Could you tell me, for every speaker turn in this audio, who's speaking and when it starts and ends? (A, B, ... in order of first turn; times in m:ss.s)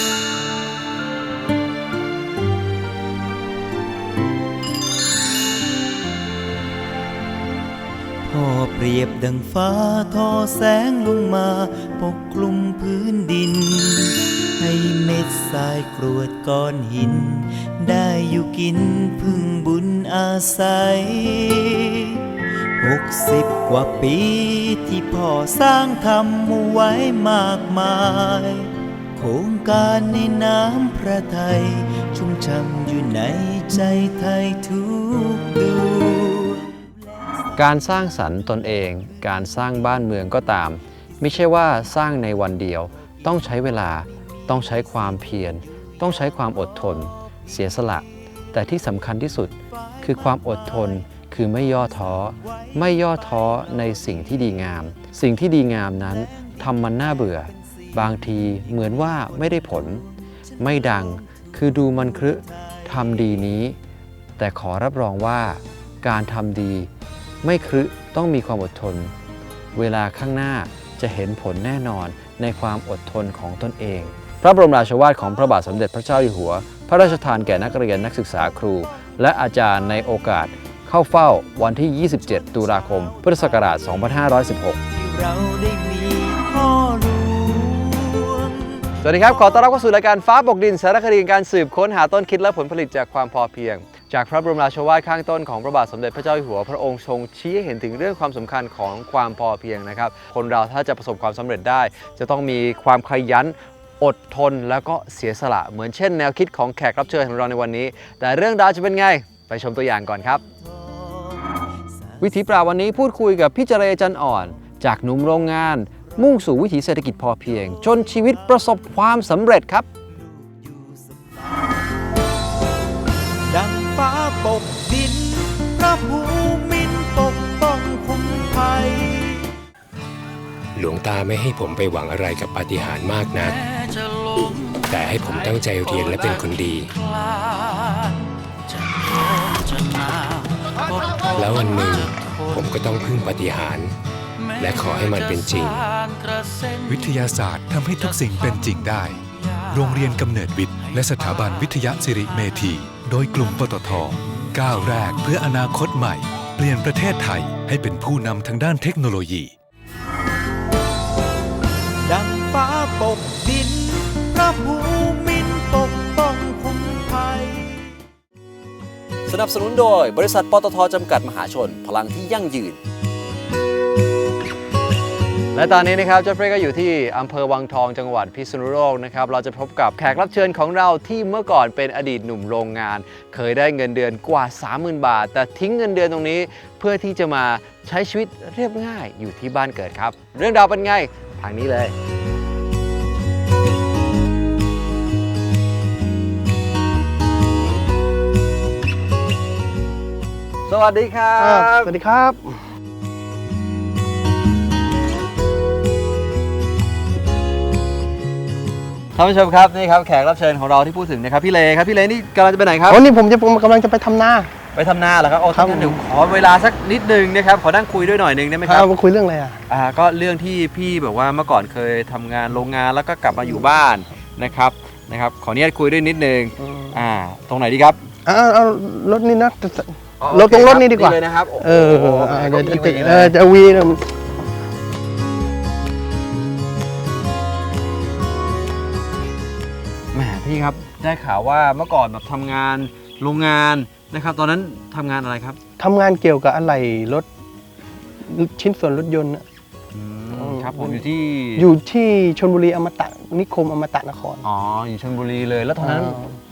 0:08.2-0:22.2 A
0:22.8-0:37.6 A
0:37.5-1:00.0 B
0:56.2-1:02.9 A
1:00.6-1:03.8 B
1:04.4-1:06.9 B
1:07.4-1:09.1 B
1:09.7-1:24.8 B
1:22.4-1:24.1 A
1:24.9-1:28.9 A
1:29.0-1:50.4 B
1:50.3-1:52.2 A
1:52.2-1:59.9 B
2:00.1-2:02.1 A
2:03.5-2:09.5 A
2:10.8-2:13.6 C
2:14.8-2:16.9 C
2:21.3-2:23.9 C
2:24.6-2:25.8 C
2:26.9-2:39.5 D
2:42.0-2:47.8 A
2:49.3-2:52.8 B
2:55.5-3:11.9 B
3:20.7-3:21.9 B
3:21.4-3:22.6 E
3:29.1-3:33.0 B
3:32.9-3:34.5 E
3:34.7-3:38.9 B
3:35.5-3:36.0 E
3:38.6-3:39.6 E
3:39.7-3:48.0 B
3:46.6-3:46.9 E
3:48.2-3:54.1 E
3:50.2-3:53.4 B
4:00.1-4:05.6 B
4:05.8-4:07.3 E
4:08.2-4:09.4 E
4:09.9-4:11.7 B
4:10.3-4:11.0 E
4:11.5-4:14.4 E
4:14.4-4:16.2 B
4:15.8-4:16.4 E